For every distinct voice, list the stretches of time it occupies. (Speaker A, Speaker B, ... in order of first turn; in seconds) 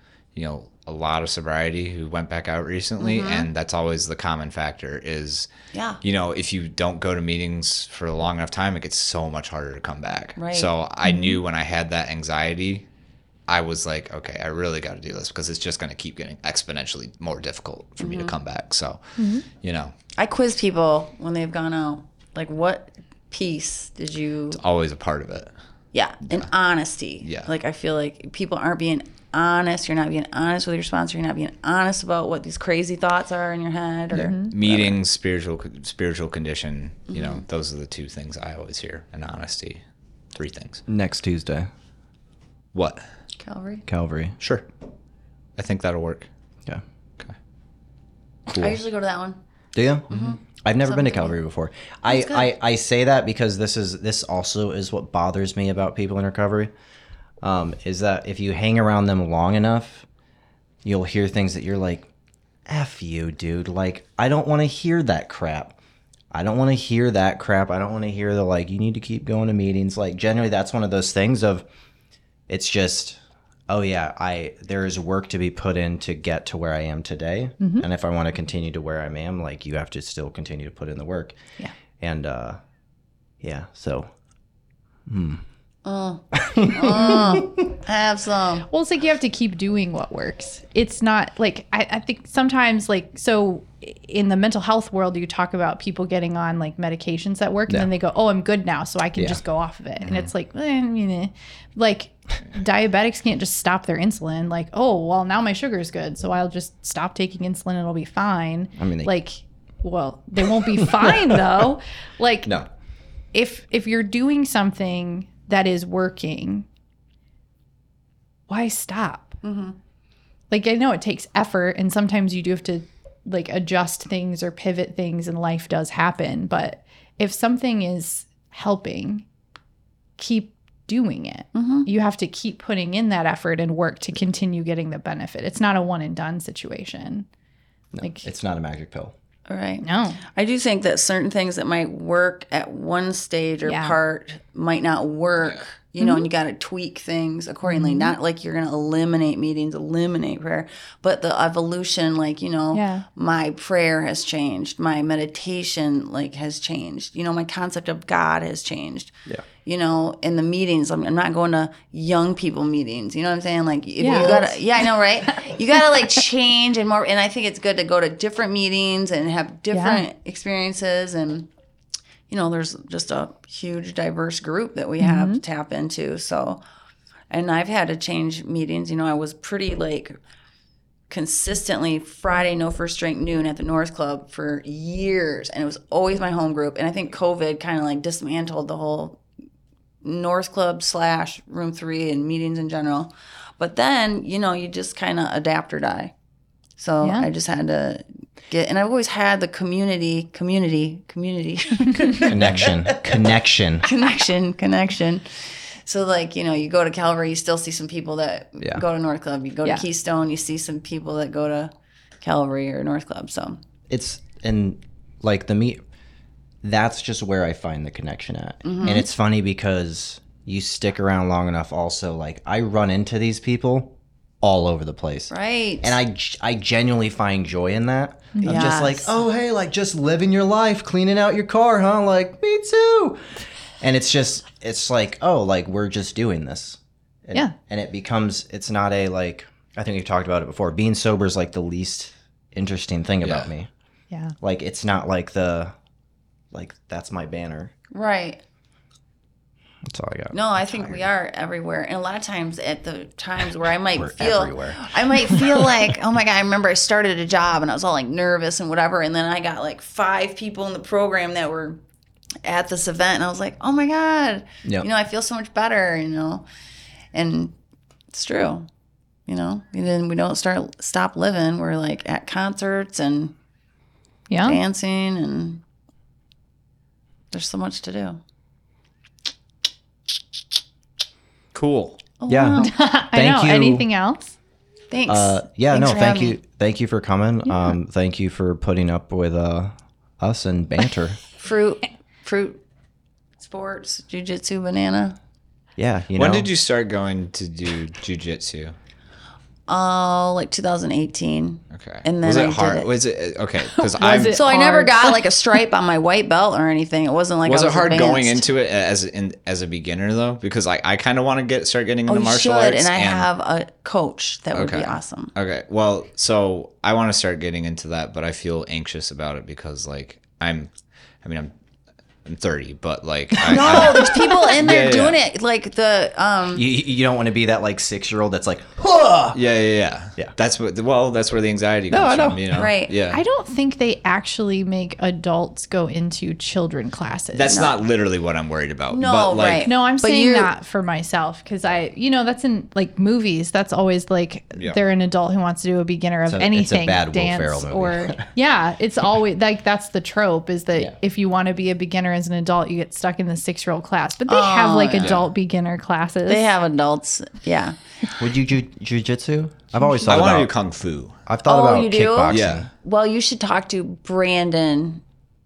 Speaker A: 0.3-5.5, 6.0-12.8, 13.5-19.9, 24.5-25.5, 27.2-27.5, 34.5-39.8, 40.3-40.8, 42.7-43.0, 44.4-44.6, 45.5-46.3, 48.5-48.8, 50.1-50.4, 100.0-100.3, 243.2-243.5, 281.5-282.0, 296.1-298.8, 301.7-304.4, 307.4-313.3, 314.5-320.7, 321.2-321.5, 322.2-325.2, 329.3-333.2, 337.3-339.7, 355.0-355.2, 360.0-361.2, 362.3-362.6
Speaker B: 3.0-3.5, 5.7-6.0, 10.3-10.7, 18.0-18.3, 20.1-24.6, 25.9-35.0, 37.1-37.4, 43.4-43.8, 48.6-49.4, 50.8-51.4, 52.1-52.5, 85.8-88.7, 119.4-119.8, 131.5-131.9, 139.5-159.1, 159.6-171.5, 172.3-176.6, 177.3-180.2, 181.1-189.2, 190.0-196.1, 196.8-203.1, 203.8-213.6, 218.6-219.0, 225.3-226.0, 228.4-229.2, 247.9-248.4, 250.3-261.8, 262.4-266.4, 267.1-267.5, 268.1-268.7, 269.3-273.3, 274.4-275.6, 277.3-278.2, 282.2-282.7, 284.9-286.4, 291.4-292.6, 293.4-295.2, 299.7-302.9, 304.3-308.4, 312.1-315.3, 323.4-326.6, 332.5-332.9, 337.5-337.8, 338.9-340.5, 354.3-355.2, 356.3-358.0, 361.4-365.0
Speaker C: 11.0-11.4, 19.2-19.4, 34.1-34.5, 77.6-77.8, 88.7-112.5, 113.3-116.7, 118.5-119.4, 120.5-129.2, 130.2-137.3, 139.8-140.2, 143.6-143.9, 146.0-146.3, 147.6-148.1, 152.7-153.1, 164.0-164.6, 169.7-170.0, 175.0-175.4, 197.0-197.3, 228.3-228.7, 274.3-274.6, 282.5-284.4, 287.5-287.7, 303.6-305.2, 333.1-337.6, 339.6-356.5
Speaker D: 40.9-41.7, 43.9-44.4, 49.7-56.7, 57.4-60.1, 60.8-62.1, 62.7-65.8, 66.3-71.6, 72.5-81.4, 82.0-82.6, 83.4-84.1, 85.0-85.4, 86.3-87.5, 108.8-109.1, 110.8-111.6, 137.9-139.1, 202.2-203.9, 213.9-215.8, 216.6-233.2, 233.8-243.7, 244.4-245.7, 246.5-247.7, 249.8-251.1, 253.9-255.9, 282.3-283.9, 285.1-291.2, 295.8-296.5, 323.6-323.8, 326.5-329.4, 331.9-332.7, 346.3-348.3, 358.2-360.5, 361.2-362.7